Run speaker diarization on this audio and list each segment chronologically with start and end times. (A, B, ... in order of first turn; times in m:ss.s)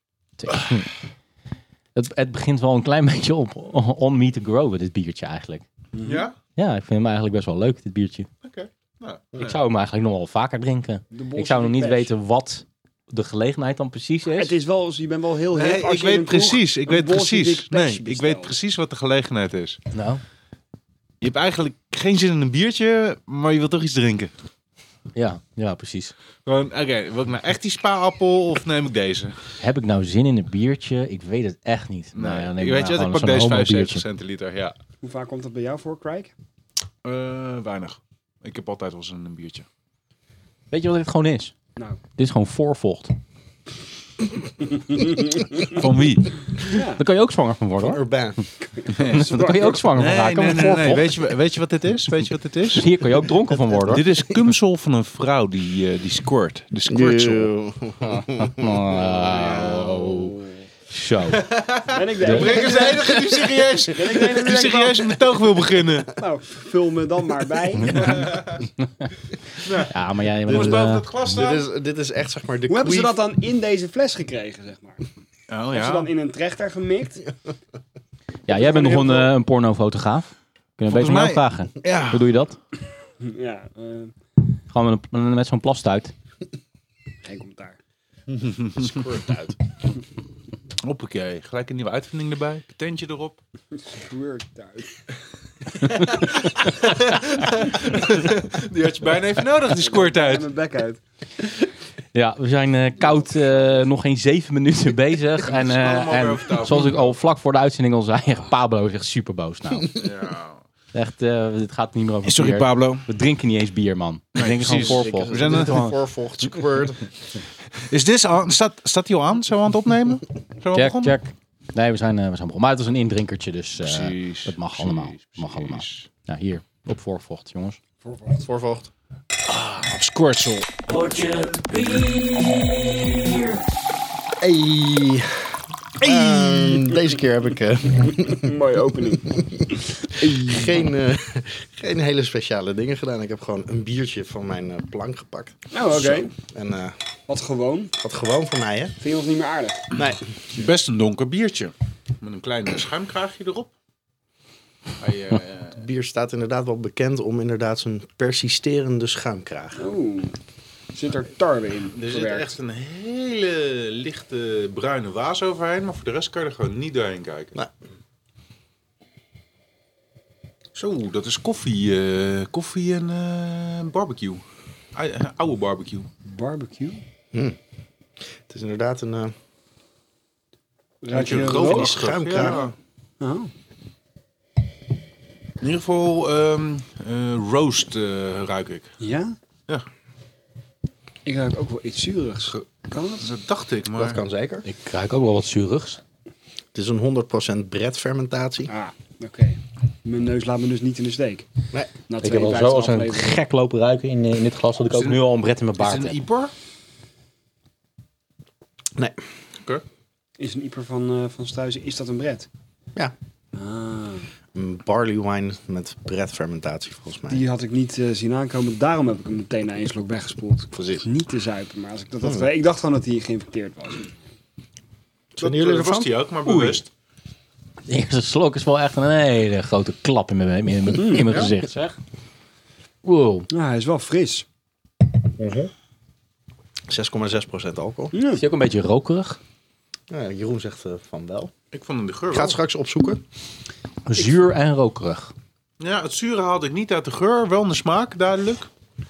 0:00.4-0:00.9 A
0:01.9-0:05.6 A
0:05.9-0:06.3 B
0:06.0-0:06.4 C
0:06.6-0:08.3 A
0:08.4-0:09.6 C
0:09.4-0:14.5 A
0:11.1-0:12.1 B
0:14.4-0:18.6 B
0:15.5-0:19.8 C
0:19.9-0:20.2 A
0:21.2-0:24.3 C
0:25.2-0:26.1 A
0:26.4-0:29.4 C
0:29.6-0:34.0 A
0:32.1-0:34.7 C
0:35.0-0:36.3 B
0:37.0-0:39.6 C
0:40.7-0:41.6 A
0:42.2-0:43.1 A
0:45.6-0:46.4 C
0:46.7-0:48.0 A
0:46.7-0:47.0 B
0:47.8-0:48.4 D
0:48.8-0:49.8 B
0:48.9-0:51.2 A
0:48.9-0:49.2 C
0:49.9-0:52.8 C
0:52.7-0:54.0 A
0:53.5-0:54.4 D
0:53.9-0:57.5 C
0:56.9-0:59.5 D
0:58.1-1:00.4 A
0:59.5-1:00.1 B
1:00.9-1:01.5 A
1:01.3-1:06.1 C
1:01.9-1:03.0 B
1:02.2-1:02.5 A
1:02.6-1:03.4 D
1:03.9-1:05.1 B
1:06.1-1:08.4 B
1:07.9-1:08.6 C
1:08.8-1:09.1 A
1:09.6-1:11.3 A
1:09.6-1:09.9 C
1:10.4-1:11.6 C
1:10.5-1:13.2 D
1:12.7-1:15.0 B
1:15.5-1:16.1 C
1:15.7-1:17.2 B
1:18.5-1:22.6 A
1:18.5-1:19.3 B
1:20.9-1:22.2 C
1:23.2-1:24.1 B
1:24.7-1:26.1 A
1:27.2-1:27.8 B
1:28.3-1:28.9 C
1:28.8-1:29.6 D
1:30.8-1:33.4 C
1:33.8-1:34.9 B
1:35.9-1:40.5 C
1:39.8-1:41.0 B
1:42.1-1:49.9 A
1:45.4-1:47.1 C
1:49.9-1:50.6 C
1:50.9-1:55.8 A
1:52.2-1:53.1 C
1:54.4-1:56.0 C
1:54.6-1:57.0 D
1:57.8-2:01.1 C
2:00.7-2:07.8 A
2:03.8-2:06.1 C
2:08.0-2:08.4 B
2:08.4-2:08.9 D
2:09.5-2:10.6 C
2:10.8-2:13.6 A
2:14.4-2:18.6 D
2:16.0-2:17.0 B
2:18.0-2:20.7 B
2:19.3-2:27.0 D
2:25.7-2:26.3 B
2:27.3-2:27.9 B
2:28.0-2:29.0 D
2:29.0-2:29.8 B
2:29.9-2:30.3 D
2:30.5-2:33.7 C
2:35.0-2:35.8 C
2:35.8-2:39.8 D
2:39.8-2:40.4 B
2:40.9-2:42.5 B
2:41.9-2:47.6 C
2:50.7-2:54.4 C
2:54.9-2:56.1 C
2:56.2-2:57.0 B
2:58.4-2:59.3 D
3:01.0-3:02.6 B
3:01.1-3:02.7 C
3:01.4-3:02.7 D
3:03.2-3:03.5 B
3:05.6-3:08.9 C
3:09.0-3:09.4 B
3:11.2-3:13.3 B
3:13.2-3:14.2 C
3:13.9-3:14.6 D
3:14.6-3:16.0 A
3:16.7-3:18.7 D
3:18.7-3:21.5 B
3:22.1-3:23.4 B
3:22.2-3:26.2 A
3:24.9-3:26.5 C
3:30.4-3:32.5 B
3:33.5-3:34.3 B
3:34.5-3:37.5 D
3:37.3-3:44.1 B
3:40.7-3:41.0 D
3:42.2-3:42.5 D
3:45.3-3:46.2 D
3:45.4-3:46.9 C
3:46.4-3:46.8 A
3:47.9-3:51.9 A
3:51.0-3:51.5 B
3:51.1-3:51.6 D
3:53.0-3:53.5 A
3:53.5-3:54.4 B
3:56.9-3:58.1 D
3:58.1-3:58.4 B
3:58.3-3:59.4 A
4:00.1-4:01.5 D
4:01.7-4:02.6 C
4:02.3-4:03.2 D
4:04.0-4:05.3 A
4:05.8-4:08.7 C